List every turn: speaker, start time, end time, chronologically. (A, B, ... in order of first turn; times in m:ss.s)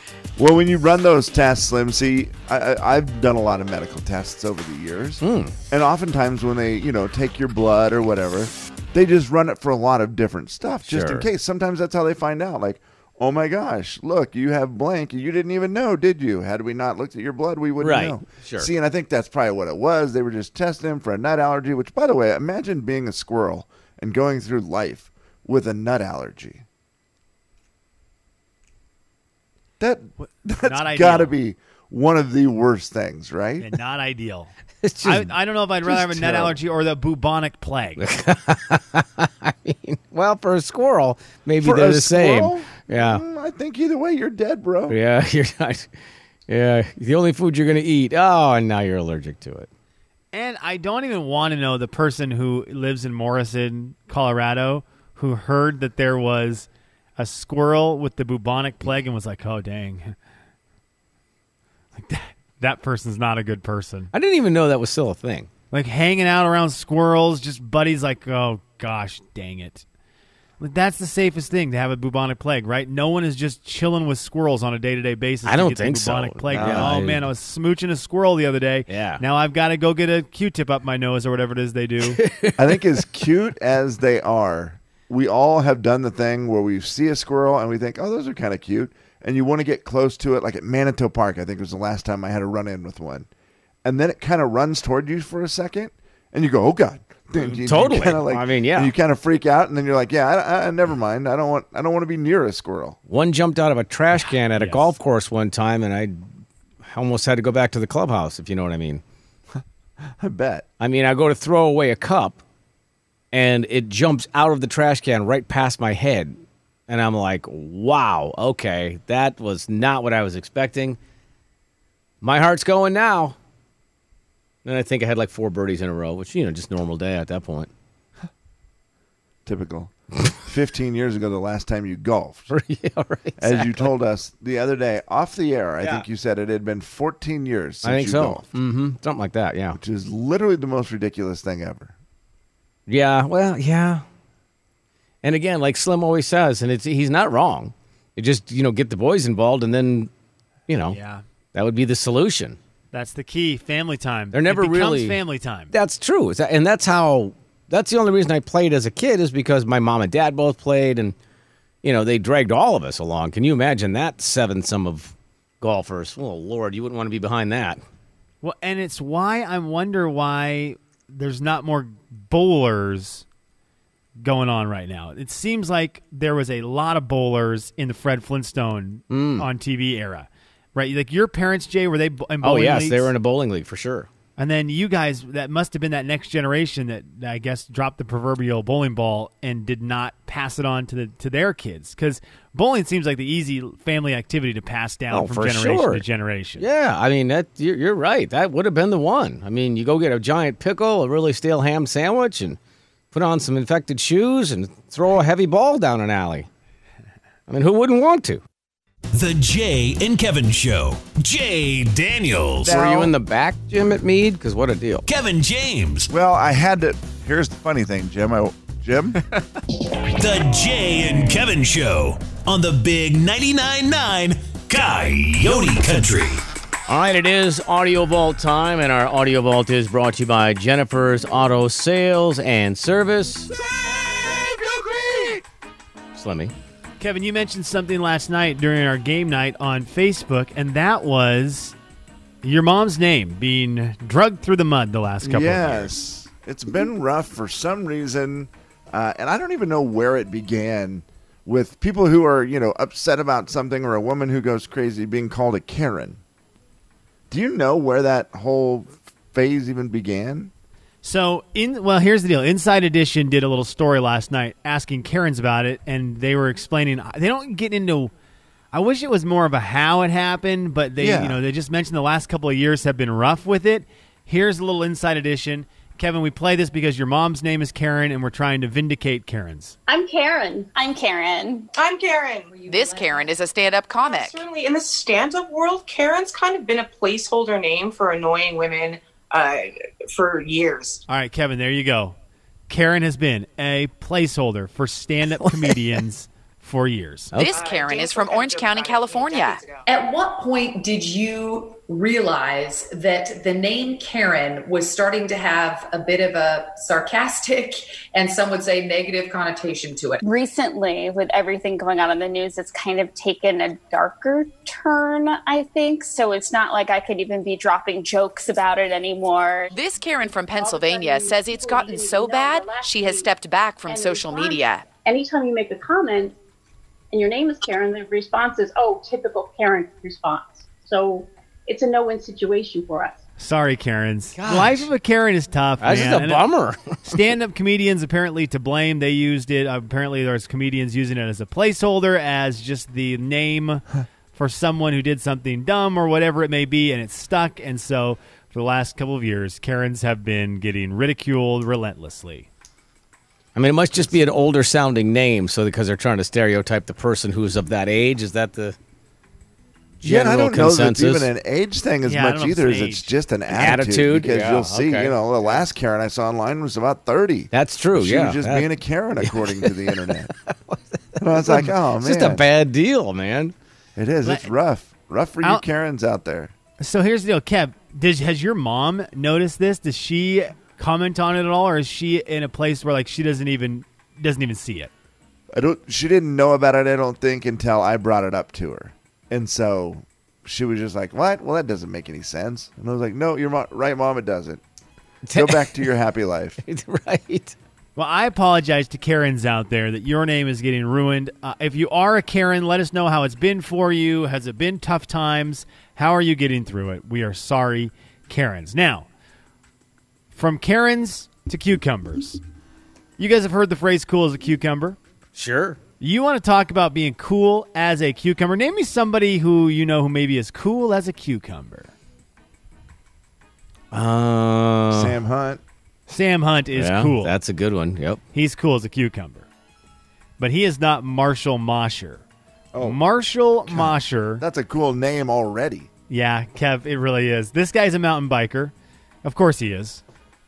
0:00.4-0:26.6 A
0:05.2-0:05.5 B
0:10.9-0:11.3 B
0:17.8-0:18.7 B
0:29.8-0:33.7 A
0:30.2-0:31.3 C
0:33.6-0:38.0 C
0:34.8-0:35.3 B
0:35.9-0:36.5 A
0:38.0-0:43.2 B
0:41.6-0:45.0 A
0:44.9-0:45.9 B
0:46.5-0:49.7 B
0:50.3-1:00.1 C
1:01.9-1:04.1 C
1:04.1-1:05.5 B
1:05.7-1:09.8 C
1:10.6-1:22.2 C
1:15.4-1:17.2 B
1:16.5-1:16.9 A
1:18.9-1:19.2 B
1:22.1-1:22.7 B
1:22.6-1:33.3 A
1:33.8-1:43.0 A
1:37.4-1:38.9 B
1:43.1-1:46.2 B
1:44.5-1:44.9 C
1:46.8-1:49.0 B
1:50.2-1:50.6 A
1:50.8-1:52.4 B
1:53.3-1:56.4 B
1:56.9-2:01.0 B
2:02.2-2:03.4 B
2:04.6-2:07.7 B
2:09.4-2:12.5 A
2:12.5-2:13.9 B
2:13.4-2:18.5 A
2:17.8-2:19.8 B
2:19.7-2:21.9 A
2:22.9-2:24.0 B
2:25.2-2:30.1 B
2:30.7-2:31.0 B
2:30.9-2:31.2 C
2:31.5-2:32.6 B
2:32.9-2:35.7 C
2:34.3-2:35.2 B
2:35.7-2:41.1 B
2:41.8-2:47.8 B
2:48.4-2:53.2 C
2:54.2-3:03.1 C
2:59.1-2:59.5 B
3:02.4-3:04.1 B
3:04.4-3:16.6 C
3:15.1-3:16.0 B
3:16.6-3:22.6 B
3:23.1-3:26.5 B
3:27.5-3:28.4 B
3:29.1-3:32.7 D
3:32.6-3:33.1 A
3:32.7-3:35.1 B
3:35.1-3:36.1 D
3:36.1-3:39.2 A
3:40.1-3:46.4 D
3:46.9-3:53.5 B
3:54.7-3:55.3 A
3:56.1-3:56.5 B
3:57.0-4:01.7 C
4:02.4-4:05.9 C
4:05.2-4:16.2 A
4:17.3-4:20.5 A
4:21.0-4:28.1 C
4:28.7-4:39.8 C
4:31.0-4:31.4 A
4:39.9-4:40.7 E
4:40.7-4:41.7 F
4:41.7-4:42.5 G
4:42.5-4:43.4 H
4:42.6-4:44.4 I
4:44.0-4:51.0 G
4:51.1-4:52.1 C
4:52.7-4:57.3 C
4:55.4-4:55.8 B
4:57.3-4:57.6 B
4:57.4-4:59.6 I
4:57.5-4:59.8 G
4:59.8-5:10.2 H
5:10.2-5:19.7 F
5:19.7-5:24.8 I
5:20.2-5:23.3 E
5:23.9-5:26.4 E
5:27.1-5:33.2 E
5:33.4-5:36.4 C
5:34.4-5:34.9 B
5:35.8-5:37.0 B
5:37.0-5:52.5 C
5:53.6-5:58.8 B
6:00.0-6:01.3 B
6:00.0-6:10.3 A
6:02.0-6:03.1 C
6:03.5-6:05.2 B
6:07.5-6:13.5 B
6:11.2-6:12.4 A
6:14.0-6:16.5 A
6:16.8-6:24.9 C
6:25.5-6:34.6 A
6:35.2-6:35.9 B
6:35.3-6:36.6 A
6:36.6-6:37.6 B
6:38.0-6:49.1 C
6:50.3-6:52.4 C
6:53.2-6:55.0 C
6:55.3-6:55.8 B
6:56.0-7:01.9 C
7:03.9-7:05.2 B
7:04.9-7:05.6 A
7:06.1-7:07.3 C
7:06.7-7:08.2 B
7:08.3-7:09.5 C
7:10.4-7:12.2 C
7:12.7-7:13.0 A
7:12.8-7:14.4 C
7:13.7-7:15.9 A
7:16.1-7:18.7 C
7:19.2-7:20.0 C